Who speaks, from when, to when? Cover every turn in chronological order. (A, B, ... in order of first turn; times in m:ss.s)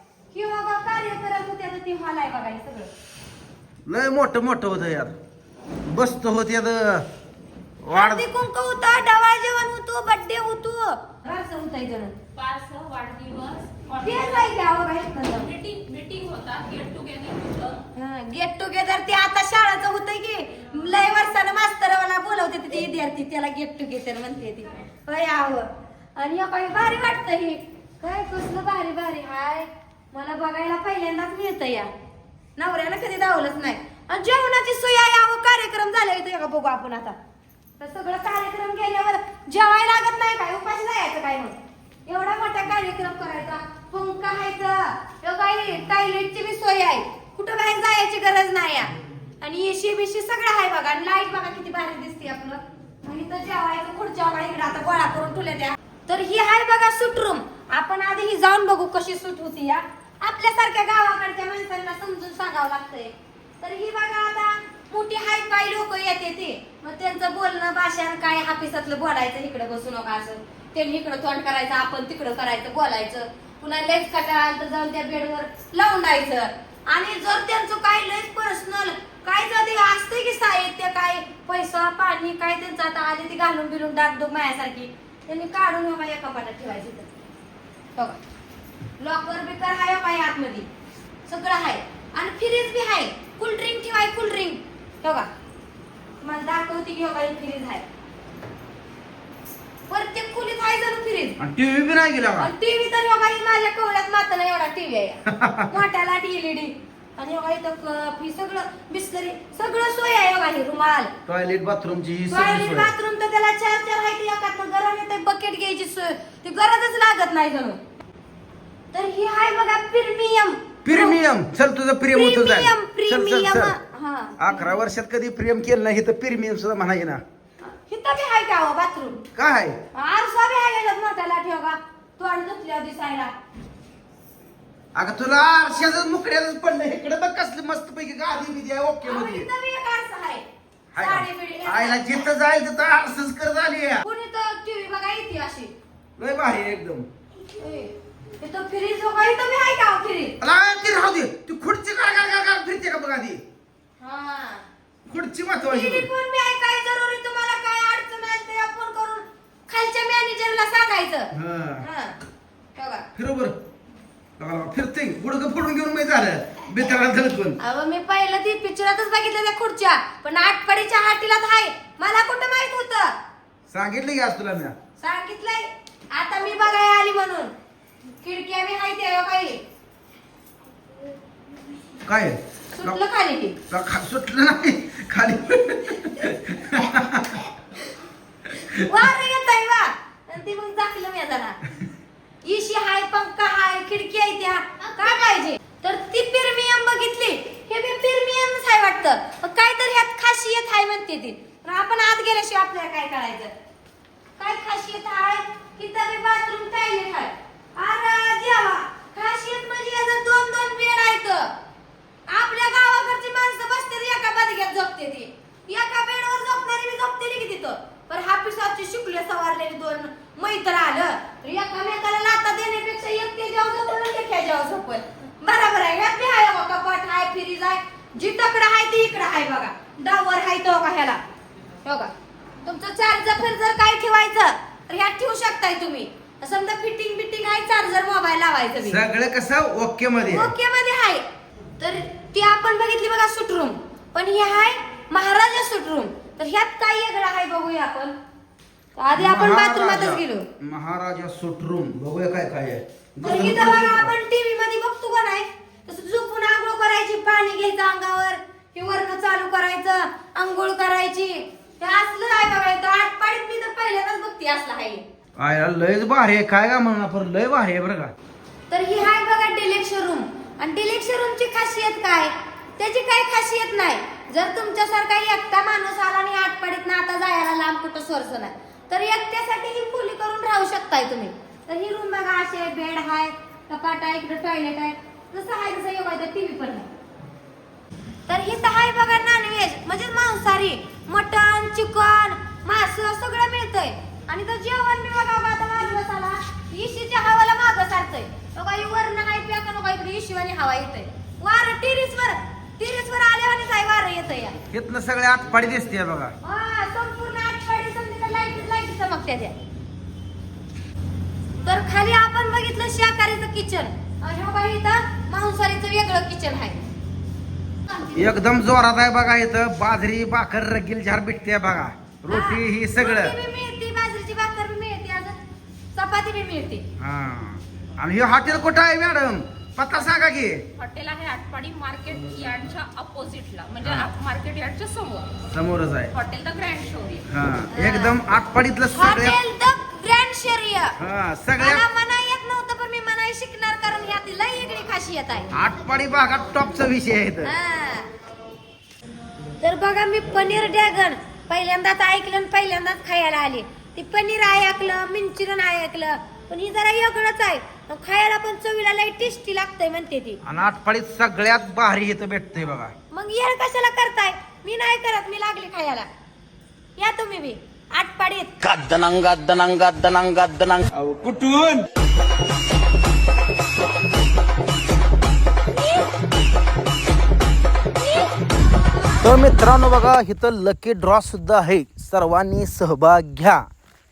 0:00.3-0:02.9 A
0:03.8-0:05.1 B
0:05.9-0:07.0 B
0:07.8-0:08.3 B
0:07.9-0:12.2 A
0:12.3-0:14.5 C
0:14.0-0:15.5 A
0:15.3-0:17.8 C
0:17.9-0:31.9 A
0:32.6-0:37.2 A
0:37.8-1:27.1 A
1:29.0-1:30.7 A
1:31.3-1:35.3 A
1:36.2-1:37.8 A
1:39.9-1:41.4 A
1:41.4-1:42.5 B
1:42.4-1:51.1 A
1:45.3-1:45.7 B
1:51.2-1:52.9 B
1:52.3-1:57.8 A
1:58.9-2:01.2 A
2:00.8-2:03.8 B
2:02.1-2:04.5 A
2:04.4-2:07.2 B
2:07.6-2:09.2 A
2:09.3-2:09.8 B
2:09.9-2:13.3 A
2:14.9-2:19.5 B
2:19.0-2:20.4 A
2:20.9-2:24.0 B
2:21.0-2:22.2 A
2:24.0-2:25.7 A
2:26.2-2:27.1 B
2:27.5-2:30.3 A
2:30.4-2:33.4 B
2:34.0-2:34.6 A
2:35.0-2:36.1 B
2:35.6-2:41.3 A
2:41.3-2:41.8 B
2:41.8-2:42.2 A
2:42.8-2:43.0 A
2:43.1-2:43.6 B
2:44.4-2:47.6 B
2:47.6-2:53.1 A
2:53.7-2:54.7 B
2:55.0-2:57.5 A
2:58.2-2:59.6 A
3:02.0-3:03.0 B
3:02.7-3:03.6 A
3:03.7-3:07.4 B
3:08.8-3:11.6 A
3:12.4-3:23.5 A
3:24.4-3:31.5 A
3:32.3-3:51.2 A
3:51.8-3:52.1 A
3:52.6-3:59.0 A
3:58.8-4:00.5 B
4:00.3-4:01.2 A
4:01.8-4:08.1 A
4:09.0-4:10.5 A
4:09.2-4:14.1 B
4:13.2-4:25.0 A
4:25.4-4:28.1 B
4:28.7-4:46.9 A
4:48.3-5:04.6 A
5:04.7-5:06.3 B
5:06.4-5:09.6 A
5:11.6-5:16.8 A
5:17.8-5:18.3 A
5:18.1-5:23.4 B
5:22.3-5:25.4 A
5:25.9-5:26.8 A
5:27.0-5:30.6 B
5:30.7-5:35.3 C
5:33.8-5:34.1 B
5:35.5-5:36.1 B
5:36.1-5:37.2 C
5:37.3-5:39.4 B
5:37.7-5:38.2 A
5:38.9-5:41.0 A
5:41.0-5:41.8 B
5:41.6-5:45.5 A
5:45.5-5:47.5 B
5:47.4-5:48.1 A
5:49.6-6:00.4 A
6:00.4-6:02.9 B
6:03.1-6:06.1 A
6:07.0-6:08.5 A
6:08.6-6:11.8 B
6:19.2-6:23.6 B